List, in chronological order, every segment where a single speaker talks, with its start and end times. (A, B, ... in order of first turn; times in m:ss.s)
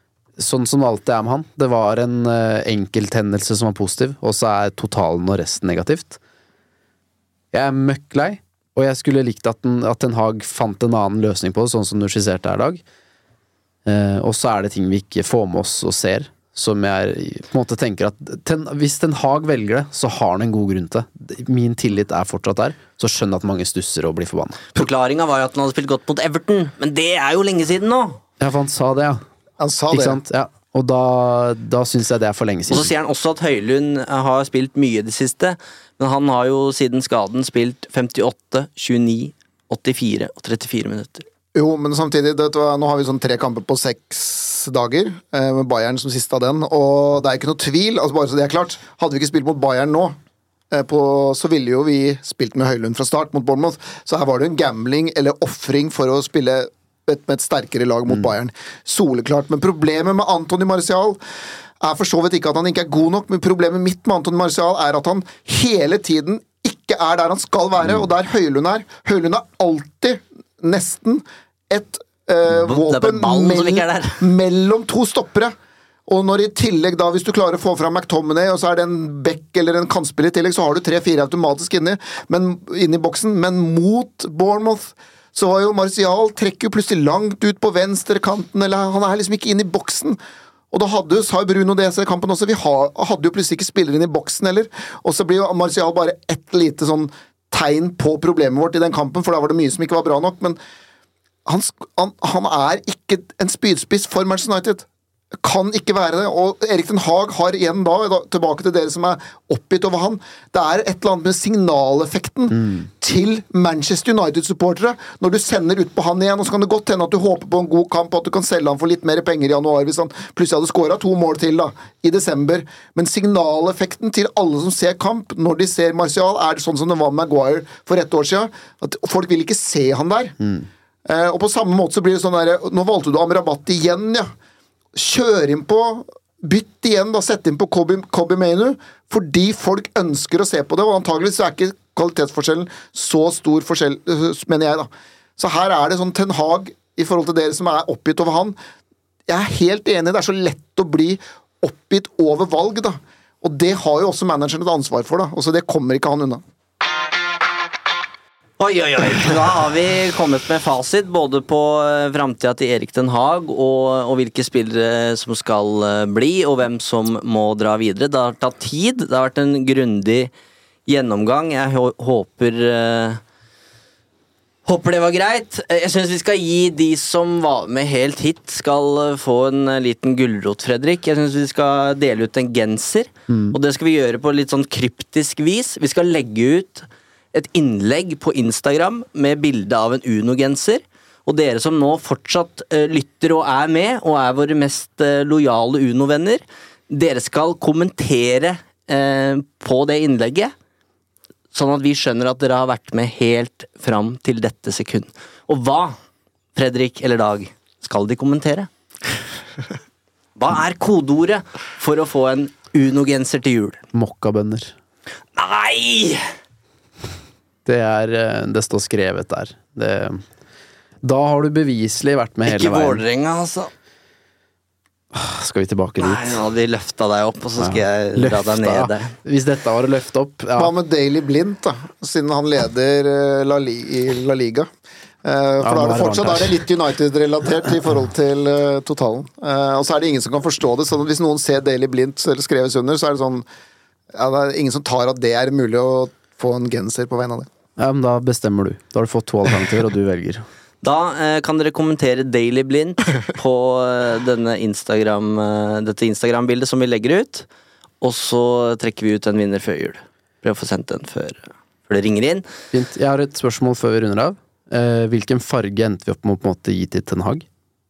0:00.4-0:06.2 A
0:07.5-0:12.8 A
0:13.8-0:24.6 A
0:24.8-0:28.2 B
0:28.4-0:29.2 A
0:29.6-0:30.2 C
0:29.9-0:32.9 A
0:32.7-0:41.2 B
0:41.5-0:50.2 C
0:50.7-1:01.2 C
1:01.8-1:15.5 C
1:12.5-1:14.2 B
1:16.1-1:30.2 C
1:30.7-1:40.6 C
1:41.4-1:44.8 C
1:45.4-2:10.4 C
2:11.0-2:14.3 C
2:14.9-2:28.6 C
2:29.3-2:36.4 C
2:38.6-2:50.3 B
2:50.8-2:53.2 B
2:54.6-3:20.5 B
3:03.3-3:03.6 A
3:21.5-3:26.0 B
3:26.6-3:28.7 B
3:30.4-3:33.8 B
3:33.9-3:34.7 A
3:35.4-3:36.3 B
3:37.6-3:40.2 A
3:41.0-3:43.0 A
3:42.5-3:43.7 B
3:45.1-3:46.4 A
3:46.0-3:49.1 B
3:47.6-3:50.7 A
3:50.6-3:54.7 C
3:55.2-4:03.4 C
3:55.6-3:56.6 A
4:04.1-4:07.5 C
4:07.8-4:10.4 A
4:10.8-4:17.5 B
4:18.0-4:22.4 B
4:22.7-4:27.4 A